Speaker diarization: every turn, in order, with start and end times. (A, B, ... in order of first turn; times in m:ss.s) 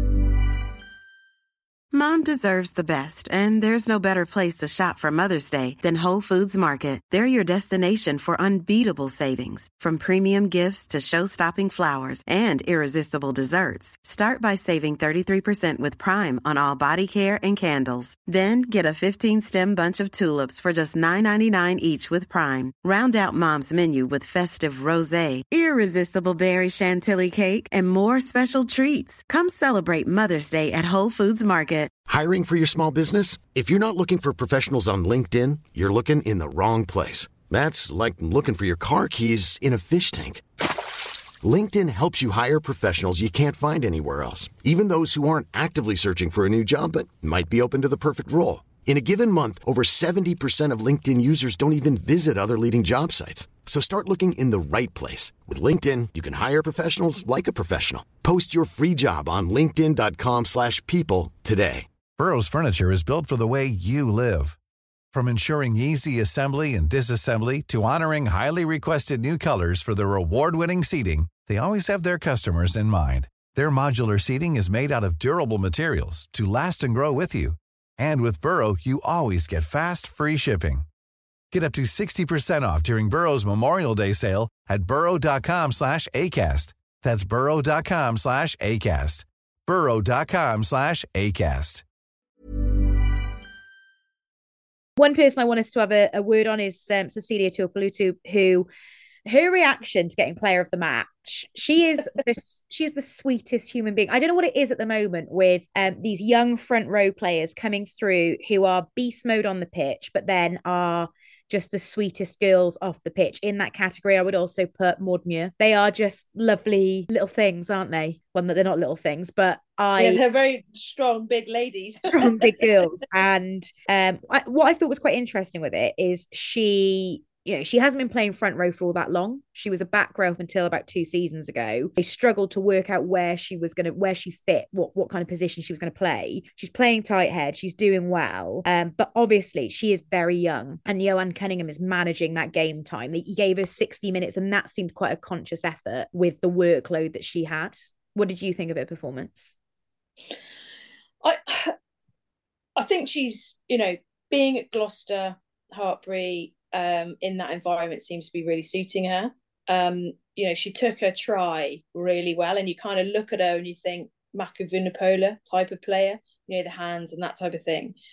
0:01.9-0:31.9 A
0:32.1-0:40.4 B
0:41.4-1:01.9 B
1:02.2-1:04.6 C
1:05.1-1:20.8 C
1:21.5-1:31.8 C
1:35.0-1:38.7 D
1:39.2-2:00.2 D
2:00.0-2:02.9 E
2:02.1-2:29.5 D
2:31.2-2:31.8 E
2:32.8-2:48.0 E